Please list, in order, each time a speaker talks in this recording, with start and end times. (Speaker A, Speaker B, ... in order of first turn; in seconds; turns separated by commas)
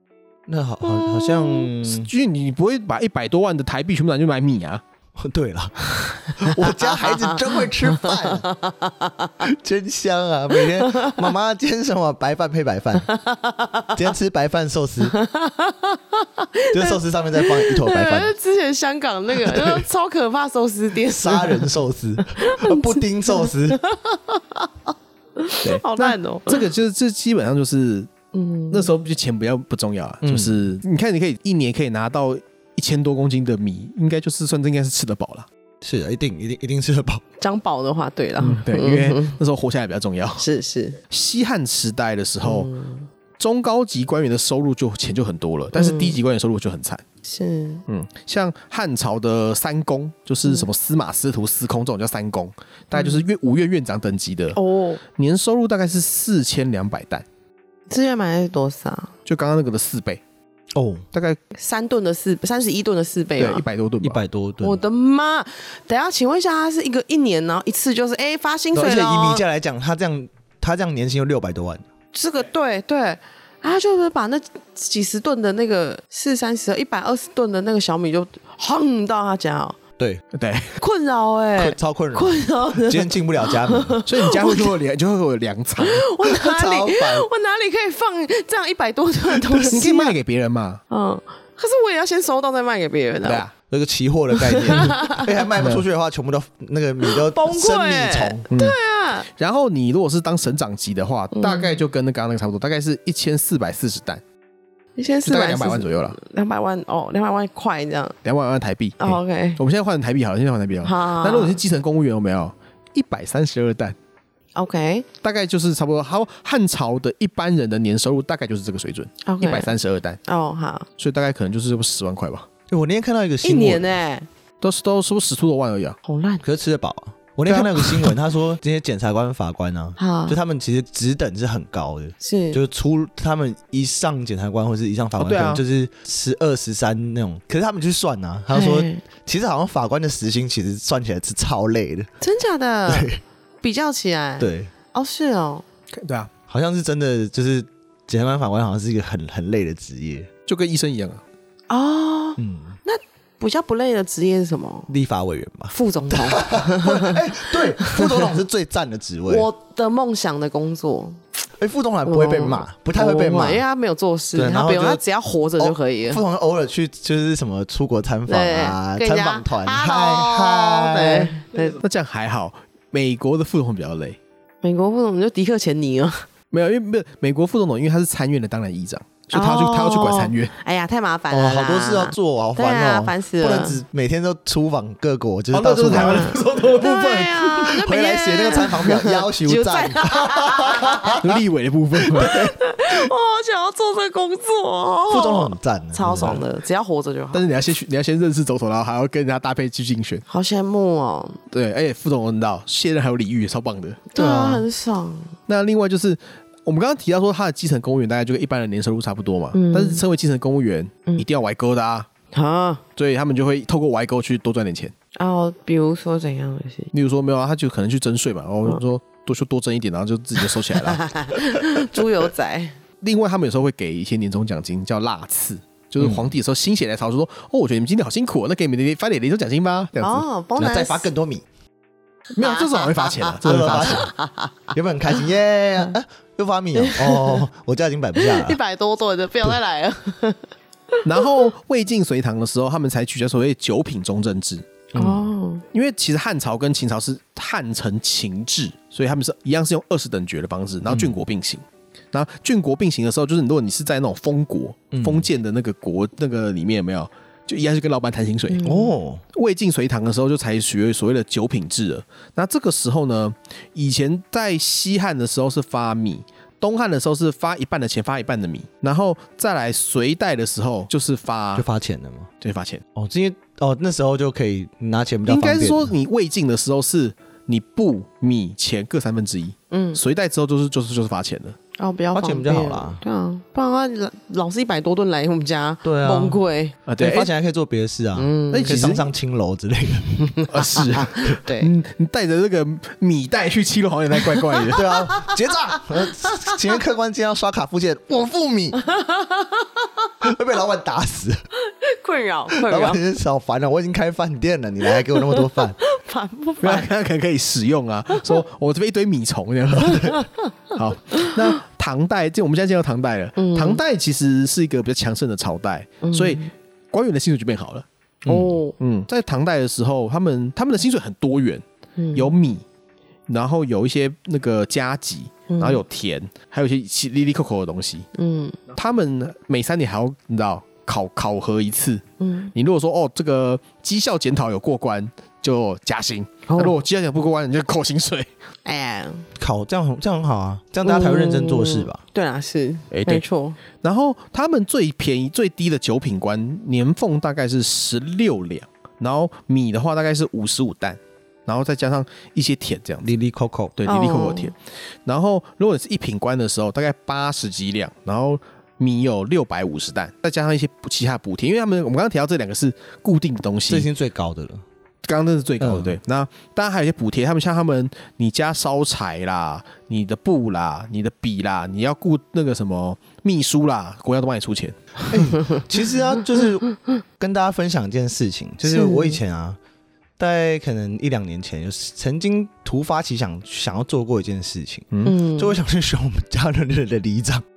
Speaker A: 0.5-2.1, Speaker B: 0.8-1.7, Speaker C: 1.8-4.8, Speaker A: 5.2-8.4, Speaker B: 6.2-9.3, Speaker A: 9.4-13.1, Speaker B: 10.5-11.3, Speaker B: 13.1-14.0, Speaker A: 13.9-15.1, Speaker B: 15.1-26.6, Speaker A: 16.7-18.3, Speaker A: 19.4-19.8, Speaker A: 21.1-23.8, Speaker C: 25.6-28.1, Speaker B: 28.3-28.9, Speaker C: 28.7-35.5, Speaker A: 30.2-30.6, Speaker A: 35.8-37.2, Speaker B: 37.4-39.4, Speaker C: 38.4-40.4, Speaker B: 40.4-41.0, Speaker C: 41.1-42.7, Speaker B: 42.4-43.1, Speaker C: 43.4-47.0, Speaker B: 45.8-46.2, Speaker B: 47.2-47.8, Speaker C: 47.9-54.6, Speaker B: 52.9-53.2, Speaker B: 54.5-55.0, Speaker C: 55.1-57.2, Speaker B: 57.9-59.1, Speaker C: 59.2-60.2, Speaker A: 60.7-61.0, Speaker C: 61.1-61.4, Speaker B: 61.5-63.6, Speaker C: 63.4-64.2, Speaker A: 64.0-64.8, Speaker B: 64.6-69.4, Speaker A: 68.7-71.8, Speaker B: 72.1-79.8, Speaker C: 80.3-80.7, Speaker B: 80.8-84.7, Speaker A: 81.6-83.9, Speaker C: 84.0-86.1, Speaker B: 85.8-90.2, Speaker A: 86.2-87.2, Speaker C: 89.7-90.8, Speaker B: 90.9-93.4, Speaker C: 93.2-93.5, Speaker A: 93.7-98.5, Speaker B: 94.4-95.3, Speaker C: 95.6-95.8, Speaker B: 97.0-99.3, Speaker C: 98.5-98.8, Speaker C: 99.3-104.2, Speaker B: 101.3-101.8, Speaker B: 105.0-108.2, Speaker C: 105.2-106.2, Speaker C: 108.2-114.0, Speaker B: 109.0-109.6, Speaker B: 110.8-111.6, Speaker B: 114.5-115.0, Speaker C: 115.2-120.2, Speaker B: 119.2-120.8, Speaker C: 121.0-122.5, Speaker A: 122.7-123.8, Speaker B: 123.4-124.3, Speaker C: 124.6-126.0, Speaker B: 126.0-126.4, Speaker A: 126.4-142.1, Speaker C: 127.5-128.1, Speaker B: 130.0-130.4, Speaker B: 132.2-132.6, Speaker C: 135.2-135.6, Speaker B: 138.5-139.0, Speaker B: 142.2-145.6, Speaker A: 142.9-143.2, Speaker A: 144.4-144.7, Speaker C: 145.9-146.3, Speaker A: 146.5-150.3, Speaker C: 150.5-151.2, Speaker B: 151.7-154.9, Speaker A: 152.4-152.8, Speaker A: 154.9-159.5, Speaker B: 155.7-158.4, Speaker B: 159.3-161.2, Speaker A: 161.6-163.6, Speaker B: 162.1-166.2, Speaker A: 164.3-165.0, Speaker A: 165.6-171.3, Speaker B: 168.3-171.8, Speaker C: 171.8-174.2, Speaker B: 174.6-176.3, Speaker C: 176.5-180.5, Speaker B: 179.3-183.8, Speaker A: 181.3-186.4, Speaker C: 185.5-187.8, Speaker B: 185.9-191.2, Speaker A: 187.8-191.2, Speaker C: 191.2-192.5, Speaker B: 192.1-197.5, Speaker A: 192.2-192.5, Speaker A: 195.1-196.4, Speaker C: 197.3-200.2, Speaker B: 200.3-201.4, Speaker C: 201.5-204.6, Speaker B: 204.1-205.3, Speaker C: 205.5-212.1, Speaker B: 209.5-210.0, Speaker B: 212.3-212.8, Speaker C: 213.0-214.9, Speaker B: 215.2-216.9, Speaker C: 216.9-221.1, Speaker B: 220.7-222.8, Speaker C: 223.0-230.2, Speaker A: 226.0-226.3, Speaker B: 230.0-231.1, Speaker A: 230.6-231.4, Speaker C: 232.3-234.1, Speaker B: 232.4-234.7, Speaker A: 233.4-234.1, Speaker A: 234.7-238.6, Speaker B: 236.8-237.4, Speaker B: 238.2-241.4, Speaker C: 241.0-244.9, Speaker A: 244.9-245.2, Speaker B: 244.9-245.6, Speaker C: 245.7-258.6, Speaker A: 250.9-251.2, Speaker A: 254.9-255.3, Speaker B: 258.5-258.9, Speaker A: 258.6-259.2, Speaker C: 259.3-271.6, Speaker A: 271.5-272.3, Speaker C: 272.4-272.8, Speaker A: 272.9-275.9, Speaker C: 275.3-281.6, Speaker B: 279.7-280.0, Speaker B: 281.8-286.8, Speaker A: 282.1-283.0, Speaker A: 285.8-286.4, Speaker C: 286.9-287.3, Speaker A: 287.0-290.1, Speaker B: 288.1-288.8, Speaker C: 288.5-289.1, Speaker B: 290.2-291.7, Speaker C: 290.5-294.9, Speaker B: 294.5-296.6, Speaker A: 294.7-298.8, Speaker B: 298.8-299.9, Speaker A: 300.2-301.4, Speaker B: 301.6-303.0, Speaker A: 302.5-305.8, Speaker B: 304.9-306.9, Speaker C: 306.6-321.6, Speaker B: 309.9-310.5, Speaker B: 313.4-313.8, Speaker B: 316.0-316.5, Speaker A: 318.2-318.6, Speaker B: 318.3-318.7, Speaker B: 322.0-322.3, Speaker C: 322.1-322.6, Speaker C: 323.3-328.1, Speaker B: 325.5-325.8, Speaker B: 328.1-328.6, Speaker C: 328.7-332.0, Speaker B: 332.2-332.5, Speaker C: 332.5-338.3, Speaker B: 336.5-336.7, Speaker B: 338.6-339.3, Speaker A: 339.4-342.0, Speaker B: 340.8-343.6, Speaker C: 342.9-343.2, Speaker C: 343.8-353.1, Speaker A: 353.0-353.7, Speaker C: 353.8-363.9, Speaker B: 353.9-354.5, Speaker A: 363.7-364.6, Speaker C: 365.0-375.2, Speaker A: 365.6-366.0, Speaker A: 375.1-379.6, Speaker B: 378.6-379.2, Speaker A: 380.2-387.4, Speaker B: 385.0-385.6